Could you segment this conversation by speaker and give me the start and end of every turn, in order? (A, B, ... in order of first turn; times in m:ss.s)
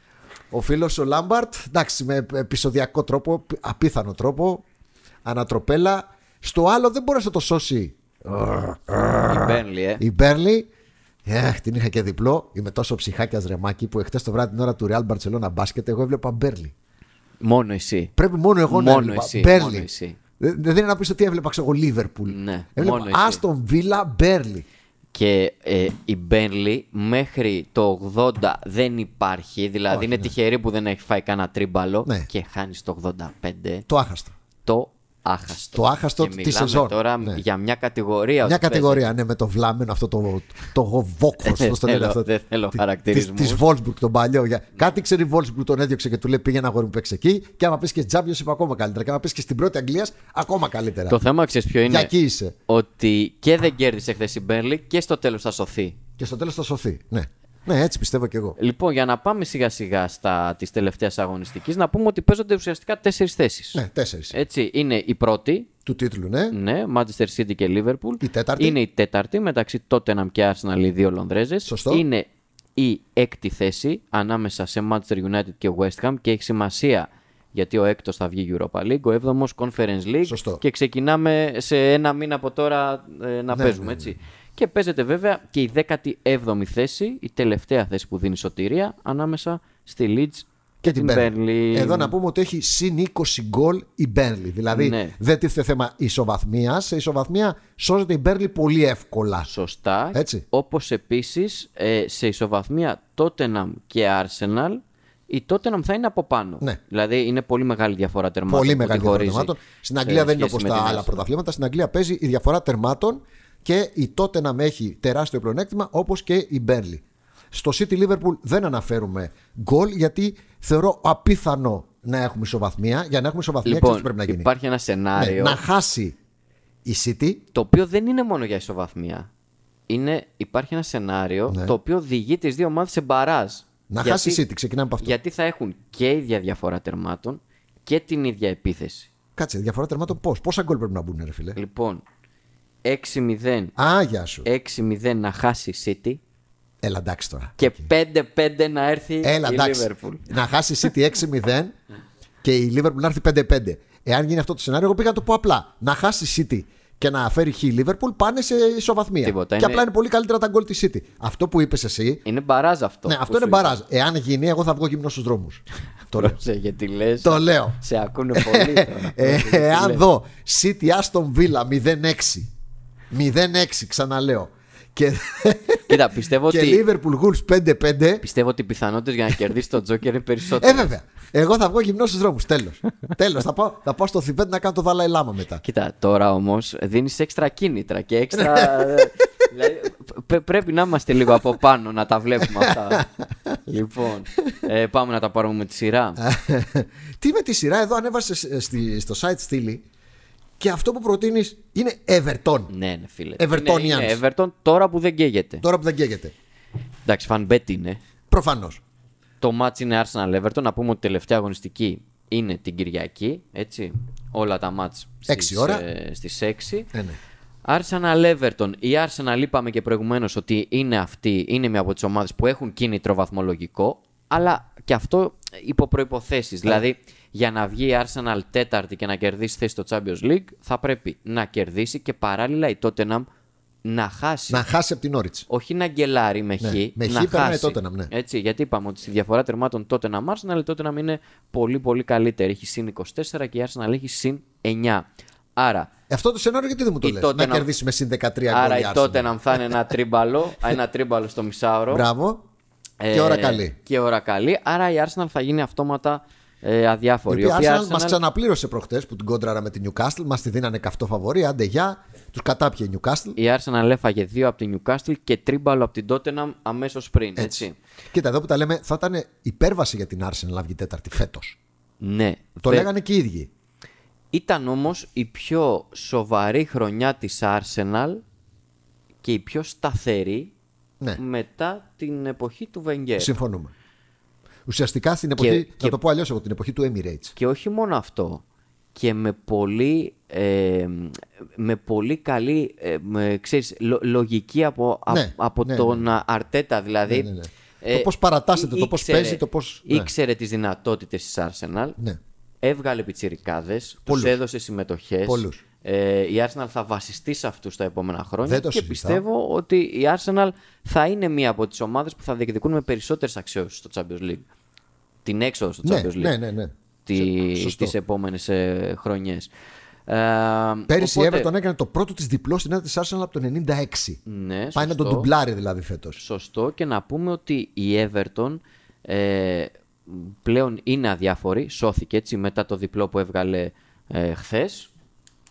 0:00.5-0:04.6 A
0:05.2-0:10.7 A
0:09.3-0:10.0 B
0:11.2-0:16.7 A
0:17.4-0:18.1 B
0:18.2-0:19.9 A
0:18.7-0:20.2 B
0:20.4-0:24.6 A
0:22.3-0:23.4 B
0:25.1-0:33.8 B
0:29.9-0:30.3 A
0:33.9-0:34.3 A
0:34.6-0:39.0 B
0:35.7-0:37.4 A
0:38.4-0:51.2 A
0:41.4-0:43.6 B
0:51.1-0:52.1 B
0:51.9-0:52.5 A
0:52.7-0:56.0 B
0:56.2-0:58.6 A
0:58.6-1:05.7 B
1:03.7-1:04.4 A
1:05.8-1:06.5 A
1:06.5-1:32.1 B
1:08.2-1:08.8 A
1:11.7-1:12.0 A
1:20.3-1:20.6 A
1:23.5-1:24.1 A
1:30.8-1:39.5 A
1:34.7-1:35.1 B
1:39.4-1:51.2 B
1:40.1-1:40.4 A
1:48.5-2:04.5 A
2:03.6-2:05.6 B
2:05.2-2:06.2 A
2:06.8-2:07.4 A
2:07.5-2:09.3 B
2:09.9-2:14.4 B
2:11.5-2:11.7 A
2:13.9-2:15.1 A
2:15.0-2:19.1 B
2:19.4-2:21.6 A
2:21.5-2:22.0 B
2:22.8-2:23.7 B
2:23.8-2:24.5 A
2:24.4-2:26.2 B
2:26.8-2:27.9 A
2:27.6-2:30.3 B
2:29.2-2:31.7 A
2:32.4-2:42.2 A
2:39.2-2:39.8 B
2:42.2-2:43.8 B
2:43.0-2:46.4 A
2:46.1-2:50.0 B
2:47.2-2:47.8 A
2:48.3-2:52.5 A
2:53.1-2:58.2 A
2:55.9-2:56.8 B
2:58.2-3:00.9 B
3:00.6-3:05.6 A
3:05.6-3:13.0 B
3:08.3-3:09.1 A
3:12.5-3:13.6 A
3:13.6-3:16.2 B
3:16.2-3:19.8 A
3:20.6-3:22.7 A
3:22.7-3:25.6 B
3:23.4-3:24.2 A
3:25.6-3:26.3 A
3:27.0-3:28.0 B
3:28.3-3:28.8 A
3:29.4-3:36.9 B
3:35.3-3:35.8 A
3:36.9-3:37.2 A
3:37.6-3:53.3 B
3:53.8-3:54.6 B
3:54.5-3:55.4 A
3:55.5-4:05.9 B
3:56.6-3:58.1 A
4:06.1-4:09.8 A
4:07.0-4:07.7 B
4:08.5-4:12.0 B
4:11.9-4:12.4 A
4:13.0-4:18.2 B
4:13.1-4:13.7 A
4:17.3-4:23.4 A
4:23.4-4:27.8 B
4:27.4-4:31.6 A
4:32.0-4:32.9 B
4:32.6-4:33.5 A
4:34.3-4:38.2 B
4:39.2-4:40.5 B
4:41.2-4:43.3 B
4:43.2-4:43.7 A
4:44.7-4:47.3 A
4:45.4-4:46.0 B
4:47.4-4:48.4 B
4:49.0-4:57.3 B
4:55.1-4:56.0 A
4:57.1-5:00.1 A
4:57.8-5:02.0 B
5:02.6-5:14.4 B
5:04.1-5:04.3 A
5:05.2-5:05.6 A
5:08.4-5:09.2 A
5:15.2-5:16.3 B
5:15.8-5:17.9 A
5:17.0-5:19.5 B
5:20.1-5:21.5 B
5:20.9-5:24.2 A
5:24.2-5:25.3 B
5:24.7-5:26.2 A
5:26.2-5:34.9 B